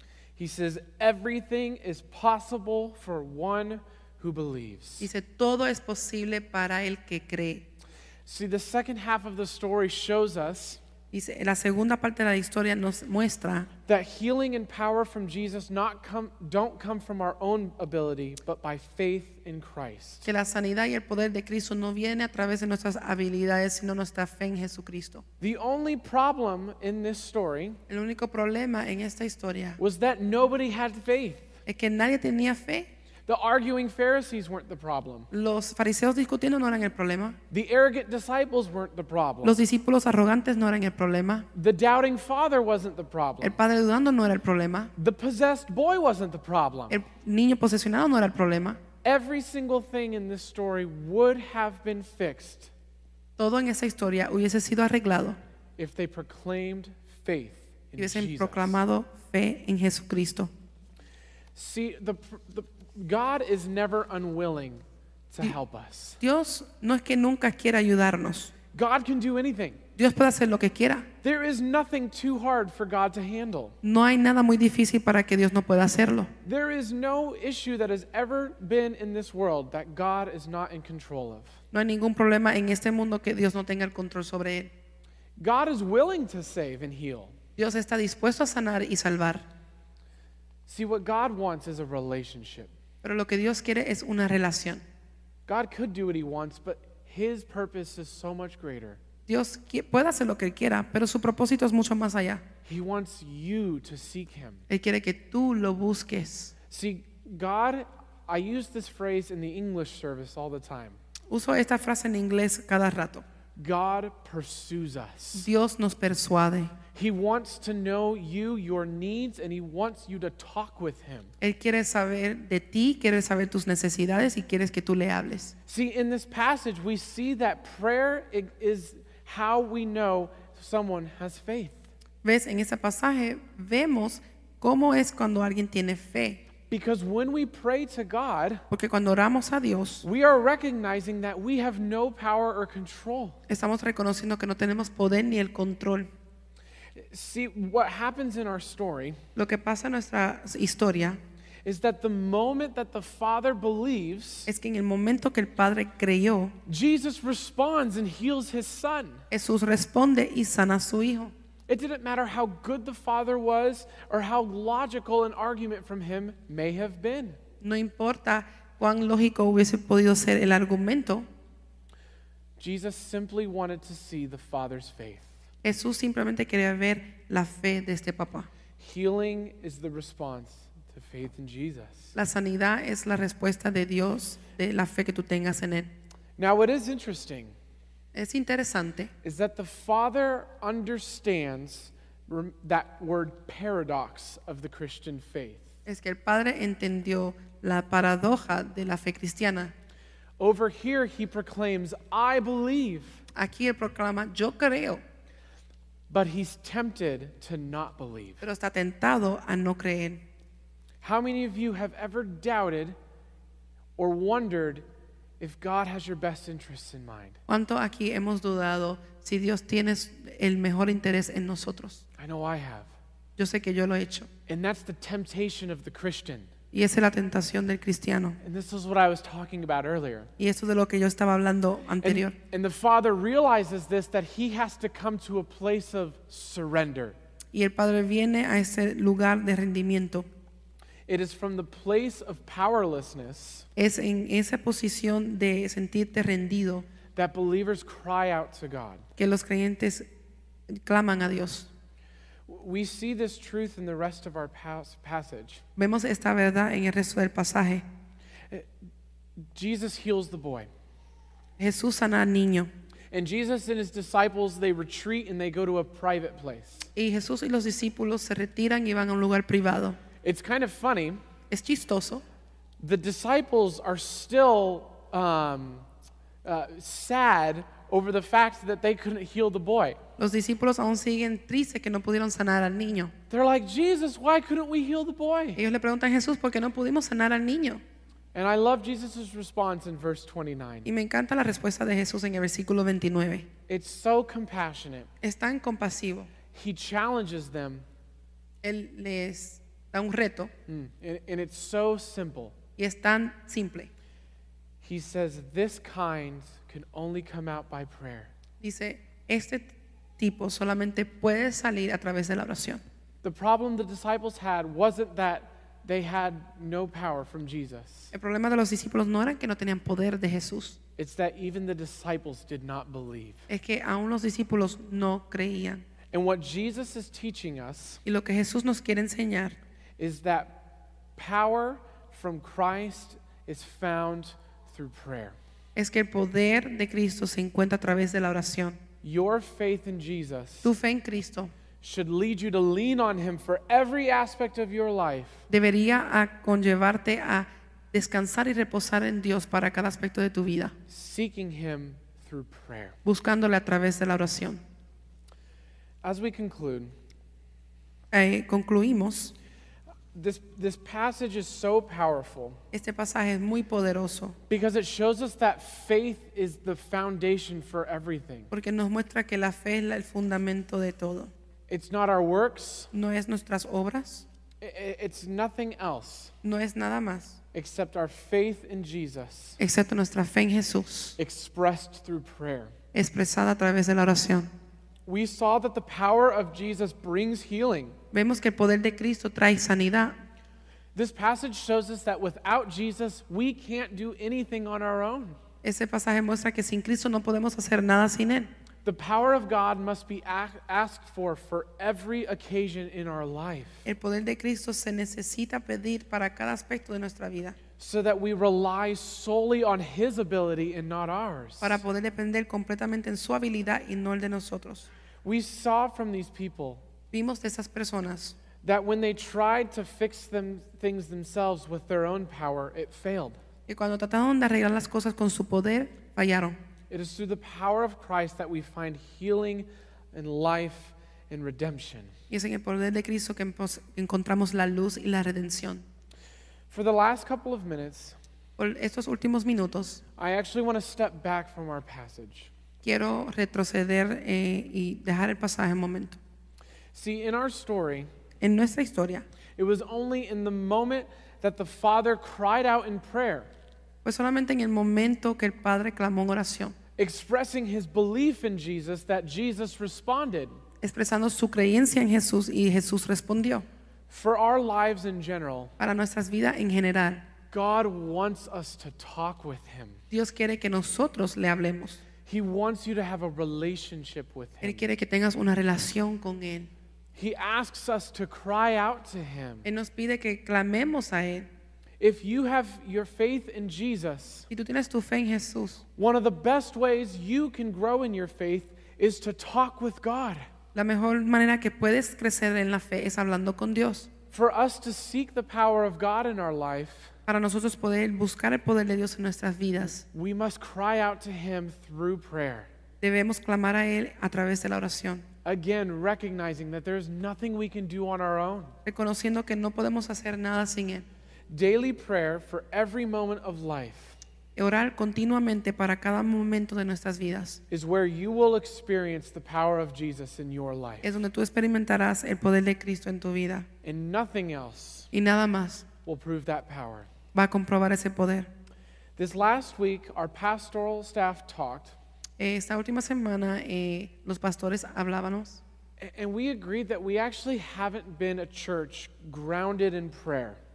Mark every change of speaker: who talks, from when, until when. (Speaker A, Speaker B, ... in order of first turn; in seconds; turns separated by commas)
Speaker A: 0.4-5.1, Speaker B: 5.0-7.7, Speaker A: 8.2-10.8, Speaker B: 11.1-13.7, Speaker A: 13.9-20.3, Speaker B: 20.2-25.2, Speaker A: 25.4-27.8, Speaker B: 27.9-29.8, Speaker A: 29.8-31.5, Speaker B: 31.6-32.9, Speaker A: 33.3-35.3, Speaker B: 35.3-37.4, Speaker A: 37.5-39.6, Speaker B: 39.4-41.5, Speaker A: 41.5-43.6, Speaker B: 43.4-44.9, Speaker A: 45.0-47.0, Speaker B: 46.9-48.8, Speaker A: 49.0-52.7, Speaker B: 53.4-55.4, Speaker A: 55.8-58.8, Speaker B: 58.0-60.5, Speaker A: 61.5-66.2, Speaker B: 66.2-68.5, Speaker A: 68.7-69.8, Speaker B: 70.0-71.1, Speaker A: 71.2-73.8, Speaker B: 73.8-76.3, Speaker A: 76.4-81.6, Speaker B: 81.7-84.7, Speaker A: 85.4-87.3, Speaker B: 87.6-89.5, Speaker A: 90.7-92.7, Speaker B: 93.0-94.8, Speaker A: 95.5-99.0, Speaker B: 99.3-102.4, Speaker A: 102.7-104.6, Speaker B: 104.7-106.5, Speaker A: 106.7-111.0, Speaker B: 111.3-113.2, Speaker A: 113.5-115.5, Speaker B: 115.3-116.7, Speaker A: 116.9-121.3, Speaker B: 121.4-125.5, Speaker A: 125.7-131.8, Speaker B: 132.2-136.4, Speaker A: 136.7-138.6, Speaker B: 138.7-140.0, Speaker A: 140.0-143.4, Speaker B: 143.5-146.1, Speaker A: 146.9-149.2, Speaker B: 149.3-151.2, Speaker A: 151.6-154.5, Speaker B: 154.5-156.5, Speaker A: 156.7-159.2, Speaker B: 159.3-161.3, Speaker A: 161.7-167.4, Speaker B: 167.6-171.3, Speaker A: 172.6-175.4, Speaker B: 175.6-178.5, Speaker A: 178.8-182.1, Speaker B: 182.1-185.9, Speaker A: 186.4-187.5, Speaker B: 188.1-189.1, Speaker A: 189.2-195.7, Speaker B: 195.8-199.7, Speaker A: 200.4-203.2, Speaker B: 203.3-205.0, Speaker A: 206.1-208.4, Speaker B: 208.4-210.2, Speaker A: 211.0-212.9, Speaker A: 214.0-214.8, Speaker A: 215.4-217.4, Speaker B: 217.5-222.0, Speaker A: 222.2-222.9, Speaker B: 223.4-224.3, Speaker A: 224.5-226.5, Speaker B: 226.7-228.4, Speaker A: 228.4-230.3, Speaker B: 230.4-232.3, Speaker A: 232.0-237.2, Speaker B: 237.5-240.3, Speaker A: 241.1-243.7, Speaker B: 243.8-246.8, Speaker A: 247.1-249.0, Speaker B: 249.2-250.1, Speaker B: 250.7-251.7, Speaker A: 252.5-255.6, Speaker B: 255.8-257.8, Speaker A: 259.5-260.7, Speaker B: 261.6-262.7, Speaker A: 263.1-266.9, Speaker B: 266.9-270.0, Speaker A: 270.2-271.2, Speaker B: 271.5-272.2, Speaker A: 272.8-275.9, Speaker A: 276.4-280.0, Speaker B: 280.2-283.1, Speaker A: 283.3-285.6, Speaker B: 285.6-287.8, Speaker A: 288.3-290.9, Speaker B: 290.8-293.5, Speaker A: 293.7-295.1, Speaker B: 295.2-296.3, Speaker A: 296.5-297.8, Speaker B: 298.6-300.5, Speaker A: 300.7-302.5, Speaker B: 302.8-303.9, Speaker A: 304.8-308.3, Speaker B: 308.6-312.8, Speaker A: 313.2-318.1, Speaker B: 318.1-320.8, Speaker A: 321.0-323.5, Speaker B: 323.5-325.8, Speaker A: 326.1-328.0, Speaker B: 328.0-329.6, Speaker A: 330.0-330.6, Speaker A: 331.1-335.4, Speaker B: 335.8-338.8, Speaker A: 339.0-340.7, Speaker B: 340.6-341.5, Speaker A: 341.8-345.4, Speaker B: 345.5-350.7, Speaker A: 350.9-353.0, Speaker B: 353.0-354.6, Speaker A: 356.0-356.9, Speaker B: 358.1-359.3, Speaker A: 360.1-362.6, Speaker B: 362.7-364.4, Speaker A: 364.5-368.5, Speaker B: 368.5-371.3, Speaker A: 371.7-372.9, Speaker B: 372.9-374.2, Speaker A: 374.6-376.3, Speaker B: 376.4-377.4, Speaker A: 377.5-379.6, Speaker B: 379.6-381.2, Speaker A: 381.2-382.7, Speaker B: 382.9-384.5, Speaker A: 385.1-388.0, Speaker B: 388.1-390.1, Speaker A: 390.9-395.4, Speaker B: 395.6-398.5, Speaker A: 398.8-403.9, Speaker B: 403.9-407.6, Speaker A: 407.8-411.8, Speaker B: 411.6-414.9, Speaker A: 415.2-416.8, Speaker B: 417.1-418.4, Speaker A: 418.6-423.4, Speaker B: 423.7-426.6, Speaker A: 426.9-432.1, Speaker B: 432.3-435.9, Speaker A: 436.7-438.1, Speaker B: 438.6-440.0, Speaker A: 440.2-442.5, Speaker B: 442.8-446.2, Speaker A: 446.9-448.1, Speaker B: 448.4-449.2, Speaker A: 449.6-453.5, Speaker B: 454.0-456.8, Speaker A: 457.0-460.6, Speaker B: 460.8-463.6, Speaker A: 464.1-465.7, Speaker B: 465.8-467.3, Speaker A: 467.5-470.0, Speaker B: 470.1-472.0, Speaker A: 472.2-474.9, Speaker B: 474.6-476.7, Speaker A: 477.1-479.6, Speaker B: 479.6-481.5, Speaker A: 482.0-484.5, Speaker B: 484.5-485.8, Speaker A: 486.0-490.5, Speaker B: 490.7-494.1, Speaker A: 494.3-497.1, Speaker B: 497.3-500.0, Speaker A: 500.1-502.7, Speaker B: 503.0-505.2, Speaker A: 505.4-508.8, Speaker B: 508.9-511.1, Speaker A: 511.5-514.2, Speaker B: 514.5-517.6, Speaker A: 517.7-521.1, Speaker B: 521.0-523.7, Speaker A: 523.8-525.1, Speaker B: 525.1-525.9, Speaker A: 526.0-527.1, Speaker B: 527.3-528.5, Speaker A: 529.2-532.0, Speaker B: 532.4-535.6, Speaker A: 536.0-540.6